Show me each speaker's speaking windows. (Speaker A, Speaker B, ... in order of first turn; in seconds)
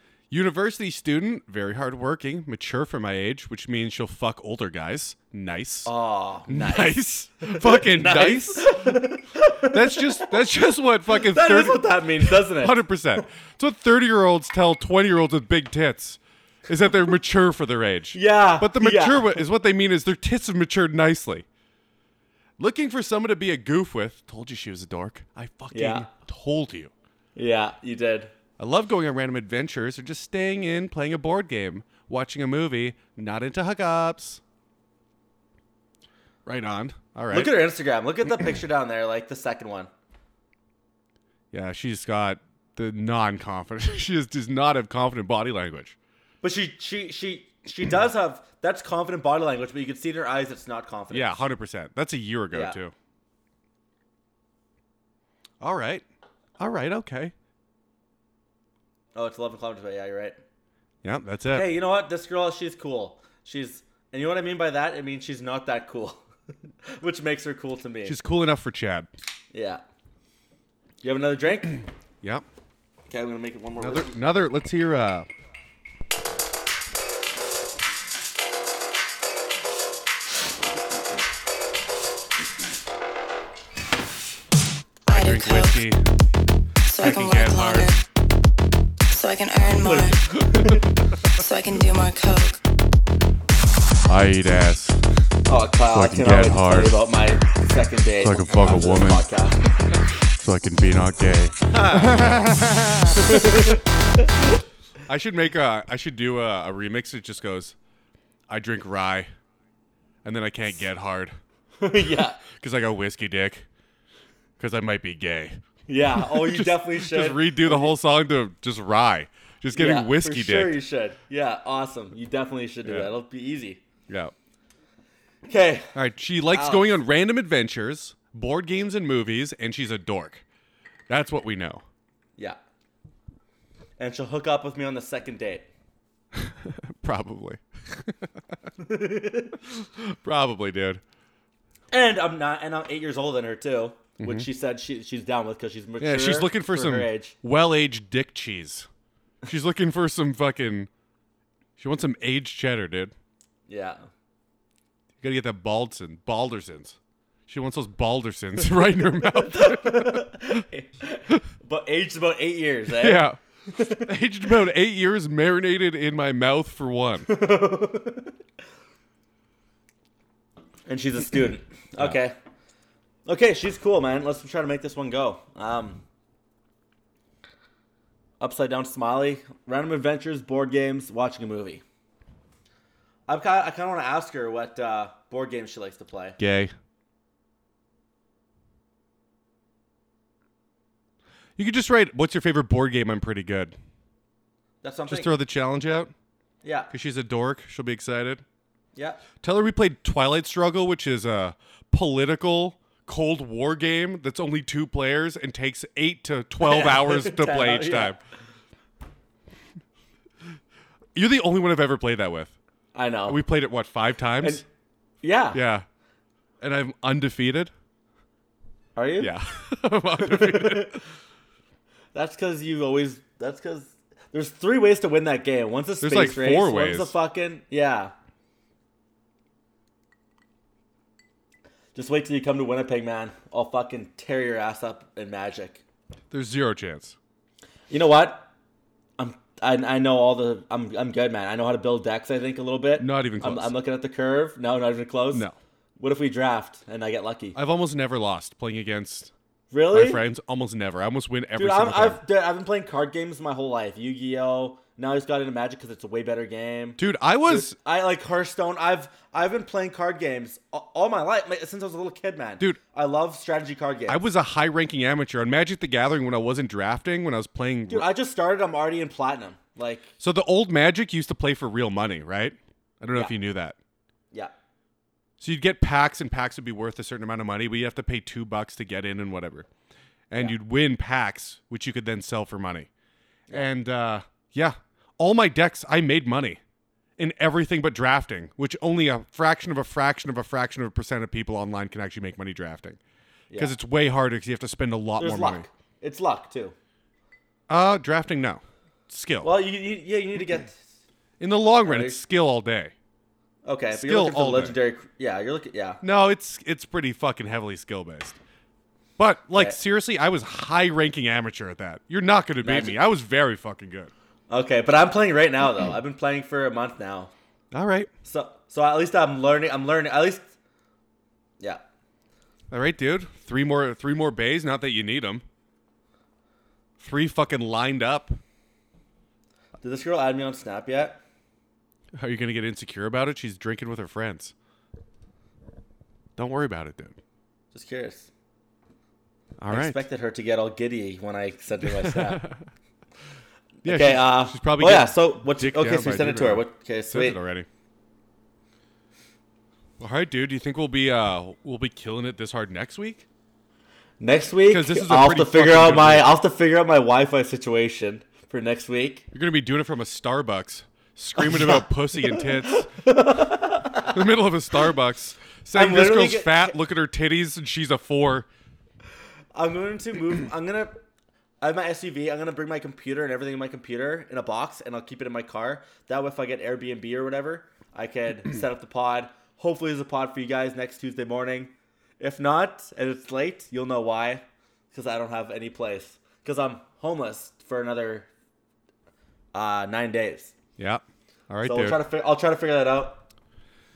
Speaker A: 0.3-5.9, 6.5-9.0, 9.6-21.4, 22.6-26.9, 28.6-34.4, 36.5-37.5, 41.5-46.0, 51.1-52.9, 55.6-56.0, 56.6-57.3, 61.0-61.7, 68.0-69.1, 73.8-75.3, 85.1-86.0, 87.0-87.9, 94.0-95.0, 95.9-97.0, 98.2-99.3, 99.9-103.8, 105.1-107.8, 108.5-109.3, 110.2-111.3, 112.4-113.7, 114.6-115.6, 116.1-120.8, 122.8-123.1, 124.1-124.3, 125.9-130.4, 131.1-131.8, 136.3-138.3, 139.7-141.0, 144.2-144.5, 146.0-148.9, 149.5-150.9, 151.8-153.1, 155.2-157.0, 157.5-160.6, 162.9-167.3, 186.4-186.7, 191.6-193.8, 195.1-196.1, 196.9-198.4, 199.4-208.2, 211.1-212.5, 213.3-214.6, 215.5-215.8, 216.6-217.7, 219.2-221.0, 226.0-227.1, 236.3-237.2, 243.0-243.7, 247.5-249.3, 249.9-252.2, 257.0-257.7, 264.1-268.1, 270.2-273.8, 275.4-279.7, 280.3-282.9, 283.5-286.6, 287.2-293.0, 293.6-295.6, 297.7-299.5, 301.4-302.9, 303.9-304.7, 306.0-308.4, 309.2-314.1, 317.7-318.1, 322.7-325.4, 327.0-328.4, 332.1-334.5, 336.4-337.1, 339.6-340.0, 341.9-342.6, 343.8-347.7, 350.0-353.2, 354.7-356.3, 359.3-362.9, 364.0-368.5, 390.8-392.0
Speaker B: 5.8-10.4, 11.2-13.2, 18.1-19.4, 25.7-26.1, 27.4-28.3, 37.3-39.9, 46.4-51.4, 52.5-52.8, 59.1-60.4, 61.5-66.2, 66.8-68.2, 69.5-69.8, 71.0-71.8, 73.1-74.2, 89.8-90.8, 95.5-99.6, 103.2-104.3, 111.8-112.4, 115.9-117.9, 119.7-123.8, 125.5-125.9, 126.5-126.9, 134.0-135.7, 138.8-139.6, 141.9-147.3, 153.7-154.0, 159.2-164.1, 167.3-168.3, 170.9-172.3, 173.2-176.0, 178.4-181.8, 183.3-186.4, 194.8-195.3, 196.6-196.9, 198.9-199.2, 206.6-208.2, 212.9-213.4, 215.2-215.6, 218.9-219.3, 220.2-221.0, 222.1-228.1, 231.9-235.8, 237.9-238.5, 239.2-245.4, 246.0-247.6, 249.7-250.2, 251.6-264.2, 267.9-270.1, 295.2-296.7, 299.4-300.8, 301.8-302.2, 303.6-306.0, 309.5-309.8, 312.6-313.0, 314.5-317.3, 318.2-320.5, 329.8-331.2, 337.7-338.3, 339.7-342.4, 343.8-347.4, 354.2-359.3, 361.4-364.2, 365.7-366.8, 369.5-371.0, 371.6-388.3, 389.5-390.5, 391.6-393.2
Speaker C: 85.1-85.8, 86.8-88.0, 89.1-90.4, 91.3-92.6